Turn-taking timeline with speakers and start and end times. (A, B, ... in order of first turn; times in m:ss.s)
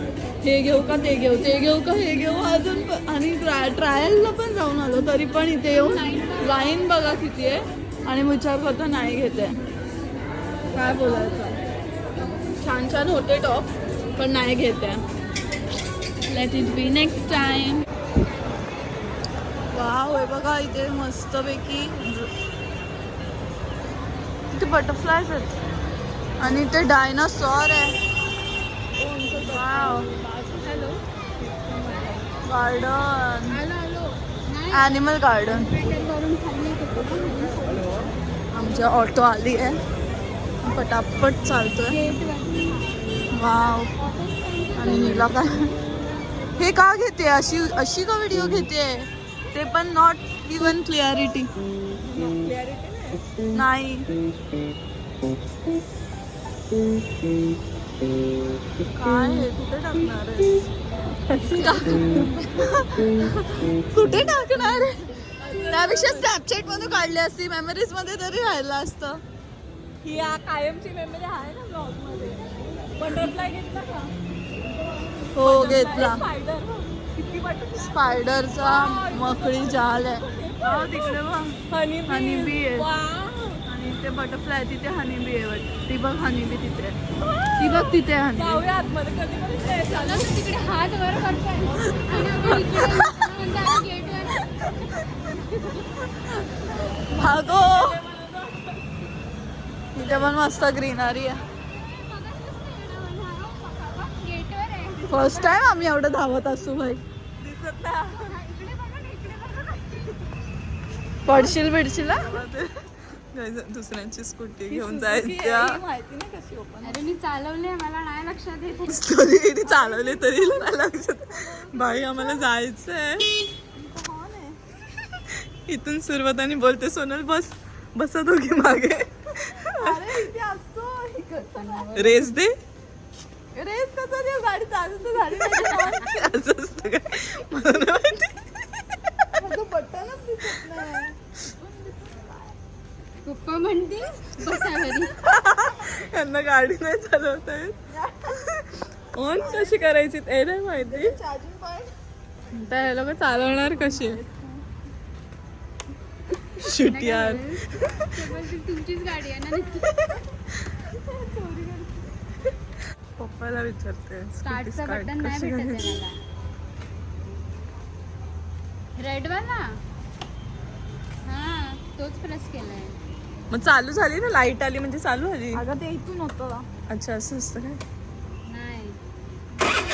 0:00.4-0:09.6 A
0:05.8-0:06.8 B
0:10.7-0:11.6 A
0:12.6-0:15.0 A
0:16.3-0:17.8 A
0:19.7-0:22.3 A
0:24.5-0:25.5 A
0:26.4-0:28.0 A
0:29.0-0:32.3 C
0:29.5-0:30.1 A
0:32.4-0:33.6 A
0:33.5-0:38.1 B
0:34.7-0:35.7 A
0:38.5-0:39.8 A
0:40.6-0:42.0 A
0:41.8-0:43.2 B
0:43.3-0:43.9 A
0:43.9-0:45.3 B
0:44.7-0:45.7 A
0:46.6-0:51.5 A
0:52.0-0:53.2 C
0:53.5-0:54.1 A
0:58.9-1:00.7 A
1:01.3-1:02.2 C
1:01.5-1:05.1 A
1:05.4-1:06.3 C
1:05.7-1:09.2 A
1:10.0-1:14.1 C
1:15.3-1:16.2 A
1:15.4-1:23.6 C
1:17.9-1:22.9 A
1:23.6-1:27.0 A
1:27.2-1:33.1 C
1:27.6-1:28.6 A
1:29.8-1:36.0 B
1:36.4-1:38.0 A
1:37.0-1:39.1 C
1:39.9-1:41.4 A
1:41.5-1:45.8 B
1:45.1-1:47.0 A
1:47.4-1:48.4 C
1:48.1-1:50.3 B
1:51.2-1:52.3 A
1:51.3-1:52.7 C
1:53.3-1:55.8 C
1:54.7-1:57.0 A
1:56.8-1:59.0 B
1:58.9-2:03.3 C
1:59.6-2:00.6 A
2:01.3-2:02.4 A
2:03.7-2:04.6 A
2:05.6-2:10.1 C
2:09.5-2:12.2 A
2:12.0-2:12.6 C
2:13.5-2:16.1 A
2:15.7-2:18.4 C
2:19.4-2:22.5 A
2:23.2-2:25.1 B
2:25.2-2:27.7 C
2:27.9-2:28.4 A
2:29.1-2:31.1 C
2:29.3-2:29.8 A
2:30.8-2:31.9 A
2:32.5-2:34.2 C
2:33.4-2:34.6 A
2:36.6-2:38.3 C
2:36.7-2:39.9 B
2:40.9-2:42.2 A
2:43.2-2:46.0 C
2:44.4-2:46.1 B
2:49.0-2:49.8 B
2:51.2-2:53.0 B
2:53.5-2:55.6 C
2:55.5-2:56.7 A
2:56.9-2:57.8 C
2:58.5-2:59.0 B